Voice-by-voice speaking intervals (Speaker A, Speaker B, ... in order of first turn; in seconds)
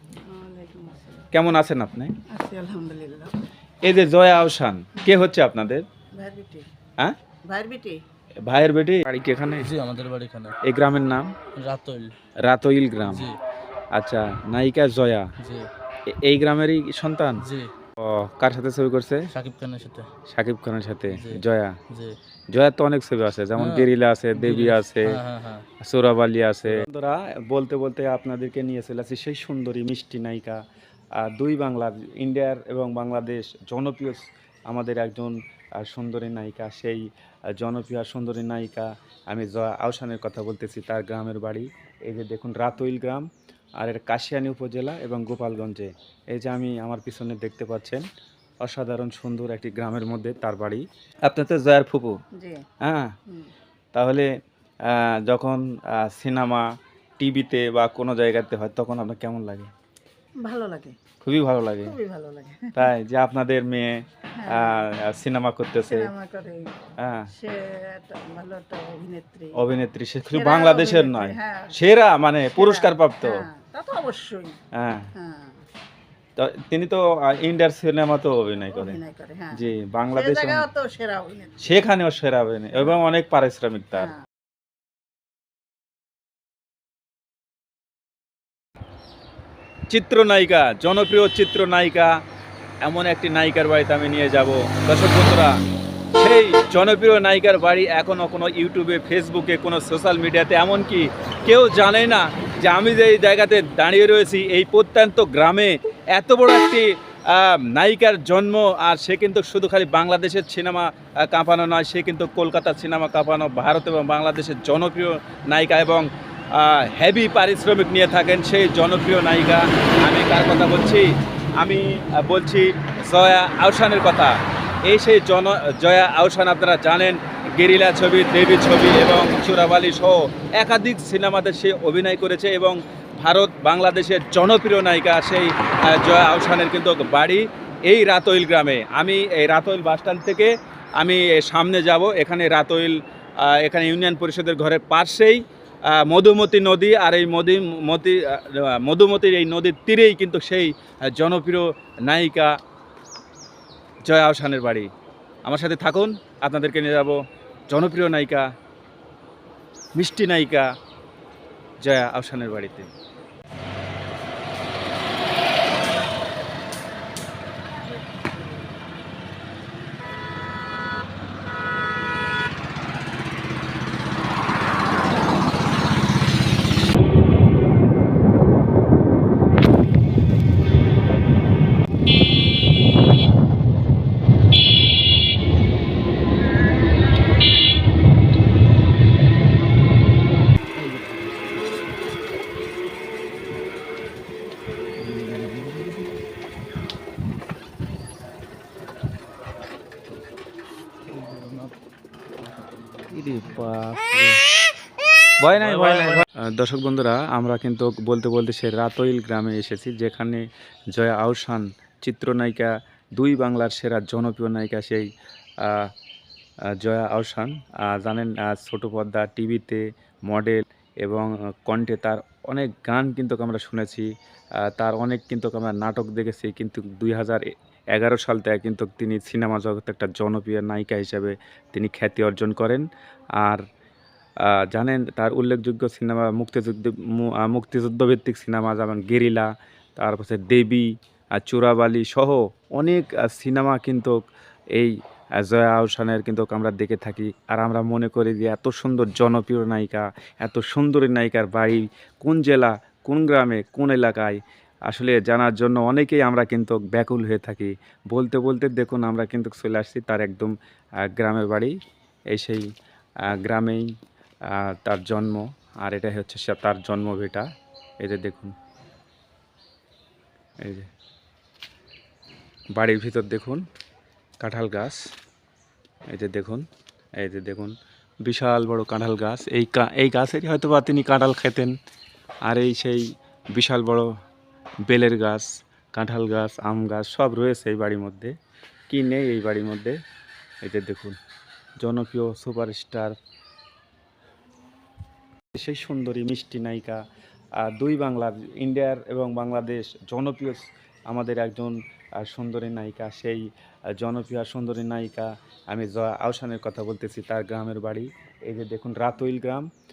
Speaker A: 0.2-1.3, 2.3-3.3, 5.0-5.2, 6.2-6.7, 7.5-8.0, 52.4-52.6, 60.4-61.0, 61.8-62.9, 64.4-64.8, 65.8-66.7, 67.3-69.7, 70.3-71.8, 72.6-74.6, 75.2-75.6, 78.7-81.7
Speaker B: 1.3-2.1, 3.8-5.8, 8.4-9.7, 10.6-11.3, 12.4-13.3, 13.9-15.3, 16.1-17.4, 18.0-19.3, 20.3-21.8, 22.5-25.2, 25.8-30.6, 31.1-43.3, 43.8-48.0, 48.6-52.2, 52.8-53.1, 53.9-54.3, 54.9-56.7, 57.2-59.7, 61.2-61.9, 62.8-66.1, 67.0-67.3, 69.5-73.5, 74.7-75.1, 76.4-79.0, 79.5-80.7, 81.6-84.1, 89.9-92.2, 92.8-95.6, 96.2-152.6, 154.0-154.9, 155.4-158.5, 159.9-160.8, 161.8-162.9, 203.1-204.4, 205.4-215.1, 215.6-215.9, 216.7-232.8, 234.4-244.2, 244.7-261.8, 262.3-262.7, 263.2-263.9, 264.5-267.5, 268.0-268.6, 270.6-270.9, 272.8-273.6, 274.4-275.1, 276.1-276.7, 277.2-281.8, 282.4-284.1, 284.9-288.3, 288.9-290.0, 290.6-291.2, 291.8-293.2, 295.5-297.0, 297.6-309.7
Speaker C: 9.6-10.6, 11.6-12.1, 13.0-13.4, 15.4-15.7, 17.4-17.7, 19.3-20.1, 21.1-22.2, 23.6-25.7, 201.1-201.7, 202.6-203.7, 205.5-206.2